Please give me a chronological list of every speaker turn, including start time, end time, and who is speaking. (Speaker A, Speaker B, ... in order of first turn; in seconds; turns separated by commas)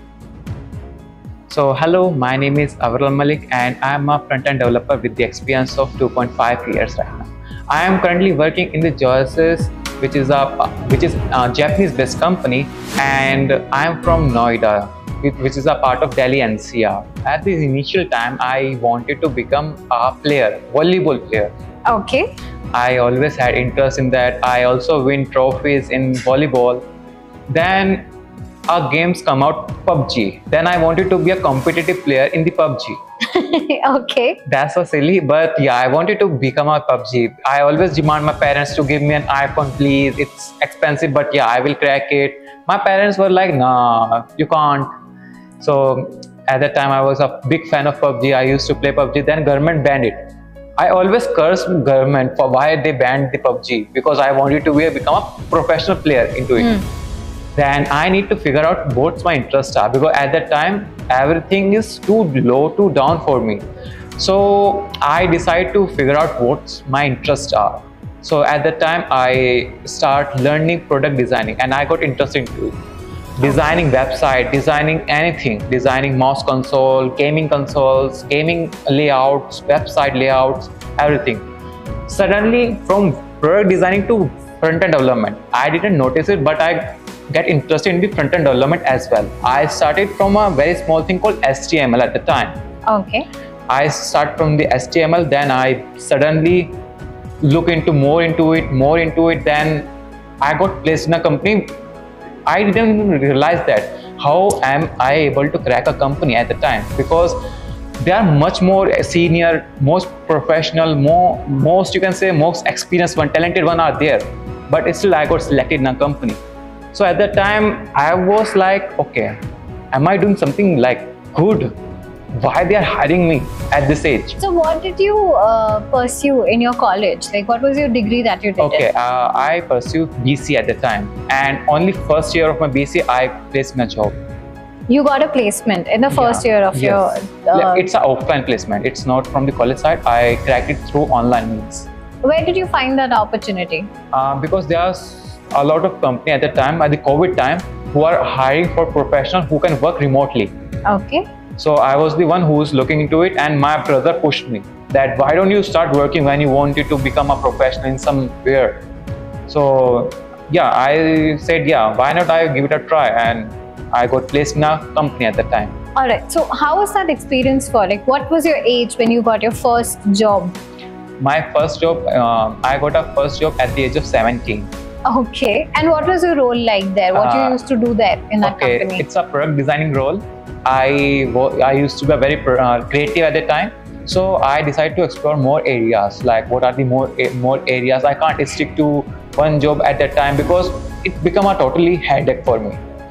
Speaker A: 1.5-21.5, Speaker B: 21.9-22.3, Speaker A: 22.7-26.8, Speaker A: 27.5-28.1, Speaker A: 28.7-33.0, Speaker B: 33.3-34.4, Speaker A: 34.5-44.9, Speaker A: 45.6-50.2, Speaker A: 50.8-56.8, Speaker A: 57.5-63.6, Speaker A: 64.2-72.8, Speaker A: 73.4-81.5, Speaker A: 82.1-92.6, Speaker B: 92.9-93.3, Speaker A: 93.7-96.8, Speaker A: 97.4-99.9, Speaker A: 100.4-101.8, Speaker A: 102.5-107.4, Speaker A: 108.0-116.4, Speaker A: 116.9-119.3, Speaker A: 119.9-121.7, Speaker A: 122.3-124.4, Speaker B: 124.4-128.8, Speaker A: 128.6-134.2, Speaker B: 134.9-137.8, Speaker A: 136.1-141.9, Speaker B: 142.2-143.9, Speaker A: 144.1-150.5, Speaker B: 150.9-151.2, Speaker A: 151.6-158.8, Speaker A: 159.5-165.7, Speaker B: 166.0-170.6, Speaker A: 171.2-174.7, Speaker B: 175.1-179.1, Speaker A: 177.1-177.6, Speaker A: 178.4-192.8